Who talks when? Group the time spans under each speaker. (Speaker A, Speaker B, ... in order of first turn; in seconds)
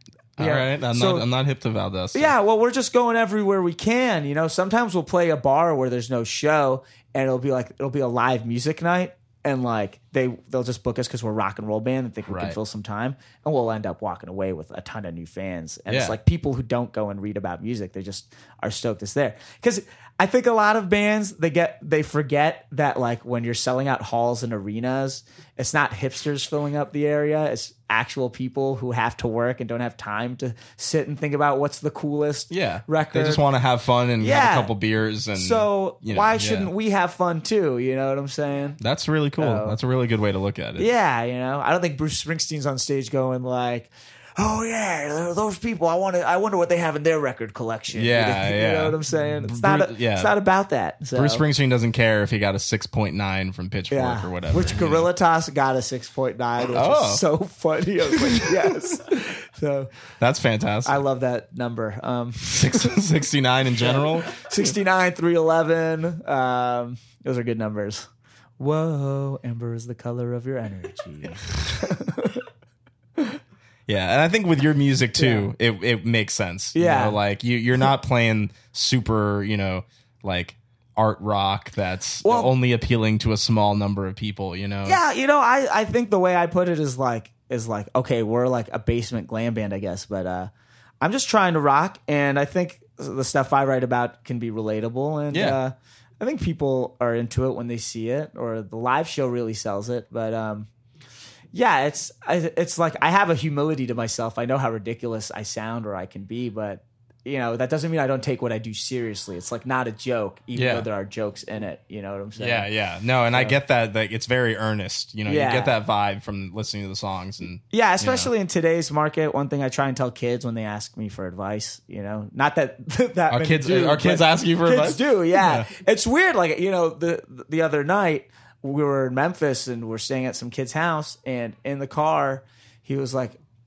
Speaker A: 0.4-2.3, 12.3-12.6, 15.9-16.2, 32.5-36.7, 38.8-40.9, 47.9-50.3, 51.1-55.1, 56.7-57.2, 58.1-58.7, 60.2-61.0, 62.5-64.7, 73.9-85.0, 95.3-95.6, 110.5-110.9, 112.3-118.3, 123.3-125.7
Speaker B: 0.4-1.2, 2.1-33.4, 34.2-34.7, 35.3-38.8, 39.4-39.8, 40.8-51.4, 53.9-59.9, 60.8-62.9, 63.8-68.1, 68.6-72.4, 75.2-75.5, 76.7-77.2, 82.2-82.5, 84.8-100.7, 101.5-112.7, 113.3-113.6, 115.3-115.8, 117.7-133.4